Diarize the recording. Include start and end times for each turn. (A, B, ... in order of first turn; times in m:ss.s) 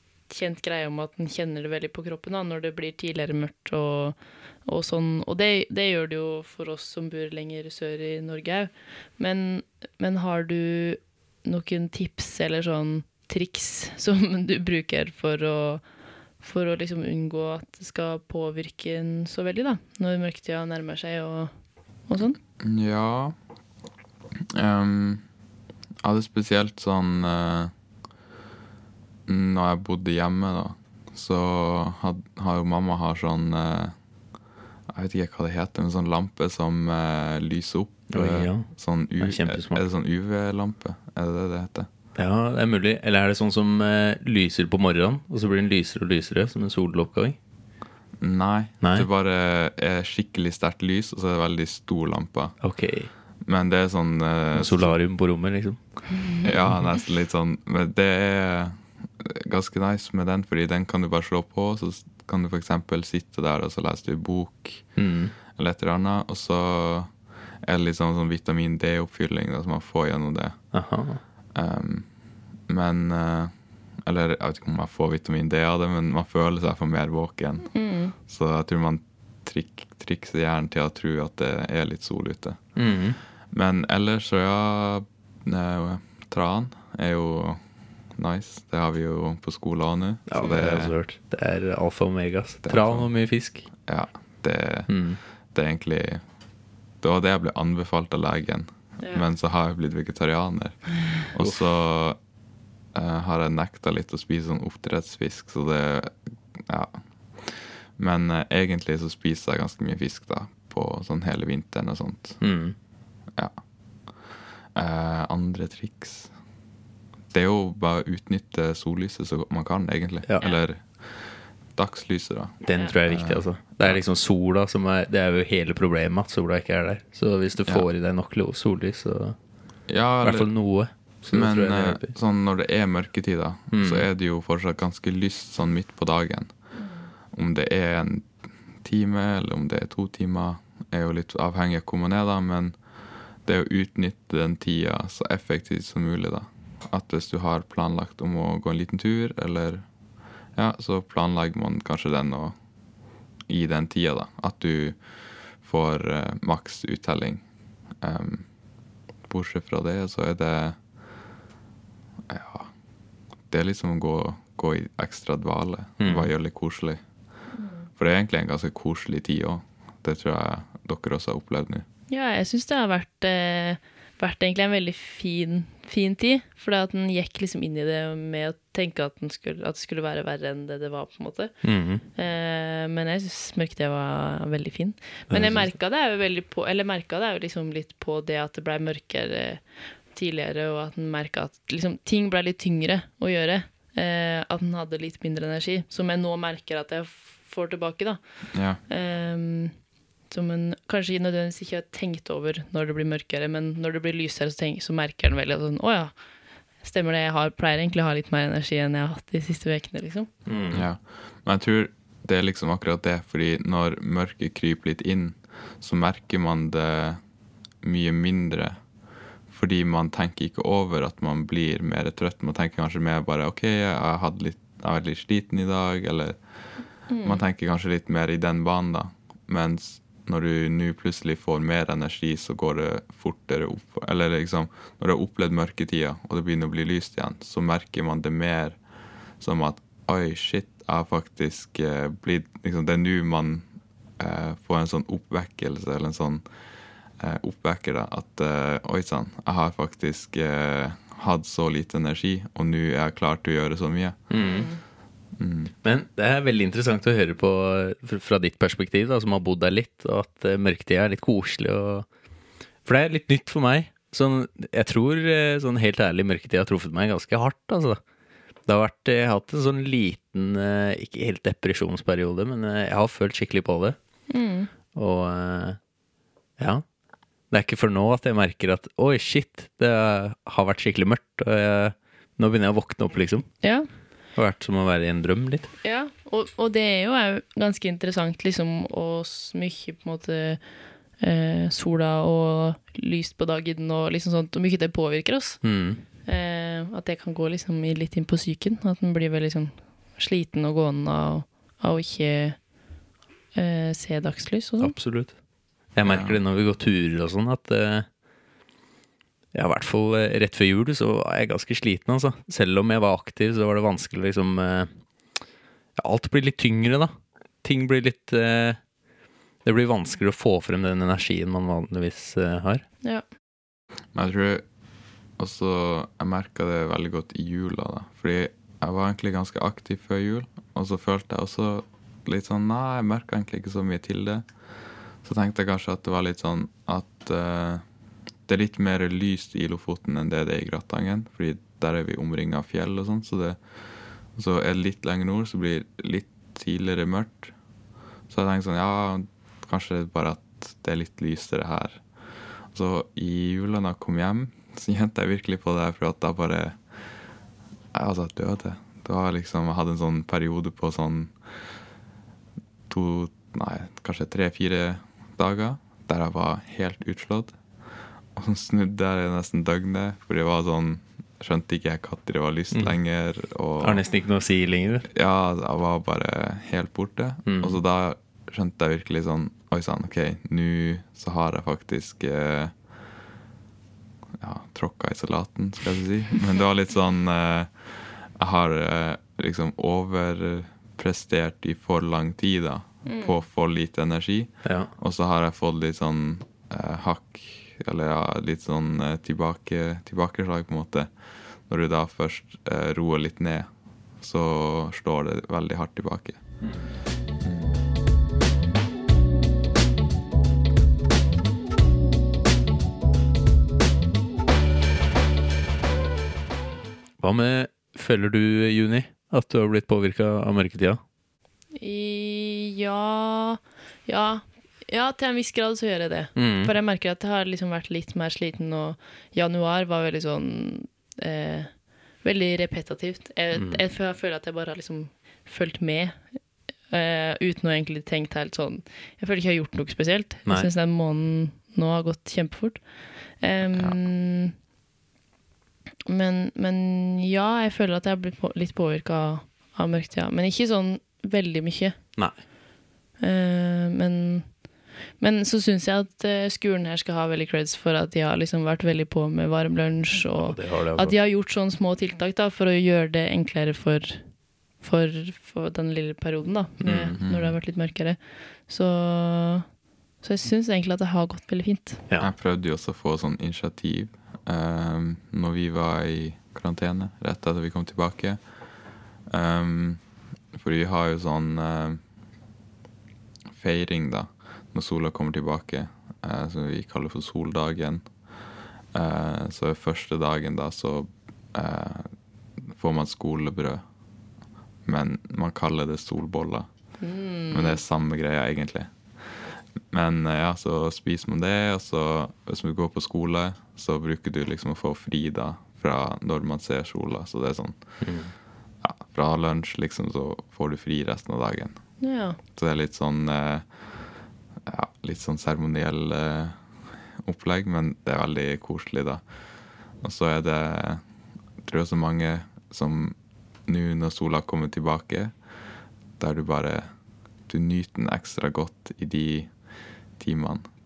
0:00.3-0:15.8 A
0:16.4-0:21.5 A
0:22.1-0:22.4 A
0:22.6-0:23.3 B
0:24.5-0:25.2 B
0:26.0-0:27.7 B
0:29.3-0:34.0 B
0:34.9-0:41.9 B
0:38.1-0:39.8 C
0:42.2-0:47.4 C
0:48.2-0:52.6 B
0:48.8-0:49.1 C
0:52.6-0:53.1 C
0:53.4-0:55.0 B
0:54.6-0:55.8 C
0:56.2-0:56.5 A
0:56.4-1:05.0 B
1:05.0-1:05.3 C
1:05.5-1:07.1 B
1:07.6-1:10.6 B
1:10.7-1:11.2 C
1:11.6-1:12.1 B
1:12.7-1:13.5 B
1:14.0-1:17.7 B
1:17.7-1:18.2 A
1:18.3-1:22.6 B
1:22.8-1:23.2 C
1:23.5-1:27.6 B
1:28.2-1:31.0 B
1:30.3-1:33.7 C
1:32.6-1:33.1 B
1:33.8-1:35.0 B
1:34.9-1:35.2 C
1:35.5-1:36.2 B
1:37.0-1:42.2 B
1:42.9-1:52.4 B
1:52.4-1:52.8 C
1:54.7-1:56.3 B
1:57.3-2:04.0 B
2:02.6-2:09.4 C
2:09.9-2:10.5 B
2:10.2-2:12.2 C
2:11.3-2:16.5 B
2:13.7-2:14.1 C
2:16.8-2:17.1 A
2:17.3-2:22.8 B
2:23.4-2:29.9 B
2:30.6-2:32.6 B
2:33.5-2:35.0 B
2:35.6-2:37.4 B
2:38.0-2:38.5 B
2:39.3-2:40.8 B
2:42.3-2:42.7 B
2:43.5-2:47.0 B
2:46.0-2:46.3 C
2:47.6-2:47.9 A
2:48.0-2:51.9 B
2:52.1-3:01.6 A
3:01.6-3:02.0 C
3:02.2-3:18.2 A
3:05.3-3:05.7 C
3:18.5-3:18.8 B
3:18.9-3:19.8 A
3:20.3-3:26.1 A
3:26.8-3:30.3 A
3:30.5-3:30.9 C
3:30.7-3:37.2 B
3:37.8-3:38.8 B
3:39.5-3:46.4 B
3:47.1-3:47.4 A
3:47.2-3:58.8 B
3:59.4-4:03.7 B
4:04.2-4:06.4 B
4:07.2-4:14.3 B
4:14.3-4:14.7 C
4:14.4-4:14.8 A
4:15.4-4:15.7 B
4:15.8-4:22.1 C
4:22.8-4:28.0 C
4:28.7-4:34.0 C
4:34.3-4:34.7 A
4:34.9-4:35.8 C
4:36.6-4:36.9 C
4:37.5-4:43.6 C
4:43.6-4:43.9 A
4:44.4-4:45.7 C
4:45.8-4:50.6 A
4:51.2-4:55.6 A
4:55.6-4:56.0 C
4:56.2-5:02.6 A
5:03.5-5:05.0 A
5:04.8-5:05.4 C
5:05.9-5:08.1 C
5:06.0-5:06.4 B
5:09.5-5:15.4 C
5:16.0-5:18.8 C
5:19.6-5:22.8 C
5:24.1-5:24.6 B
5:25.4-5:34.5 B
5:35.2-5:37.8 B
5:38.5-5:43.6 B
5:44.4-5:47.5 B
5:48.3-5:52.0 B
5:52.7-5:56.8 B
5:57.9-6:01.4 B
6:02.9-6:07.6 B
6:08.4-6:14.0 B
6:12.7-6:13.0 C
6:13.8-6:15.1 C
6:15.1-6:22.8 B
6:17.4-6:17.8 C
6:24.4-6:43.7 B
6:33.1-6:33.4 A
6:34.6-6:34.9 C
6:44.2-6:46.4 B
6:46.6-6:46.9 C
6:47.4-6:47.8 B
6:57.2-7:01.0 C
7:01.8-7:11.7 A
7:06.4-7:06.7 C
7:12.2-7:16.2 A
7:13.5-7:13.8 C
7:16.9-7:22.8 A
7:23.4-7:24.5 A
7:26.1-7:32.0 A
7:33.2-7:34.6 A
7:35.2-7:44.3 A
7:40.3-7:41.2 C
7:44.8-7:49.7 A
7:46.8-7:47.2 C
7:47.2-7:47.6 B
7:50.2-7:52.0 A
7:52.2-7:58.4 B
7:59.3-8:00.0 B
8:00.5-8:02.0 B
8:03.6-8:08.0 B
8:08.9-8:12.1 B
8:12.6-8:13.8 B
8:14.9-8:16.7 B
8:17.0-8:17.8 A
8:17.5-8:28.0 B
8:28.0-8:28.3 C
8:28.8-8:31.8 B
8:32.0-8:32.4 A
8:32.6-8:33.7 B
8:34.6-8:36.6 B
8:37.2-8:39.2 B
8:40.0-8:41.0 B
8:41.6-8:45.3 B
8:46.2-8:46.9 B
8:47.5-8:49.5 B
8:50.2-8:50.6 B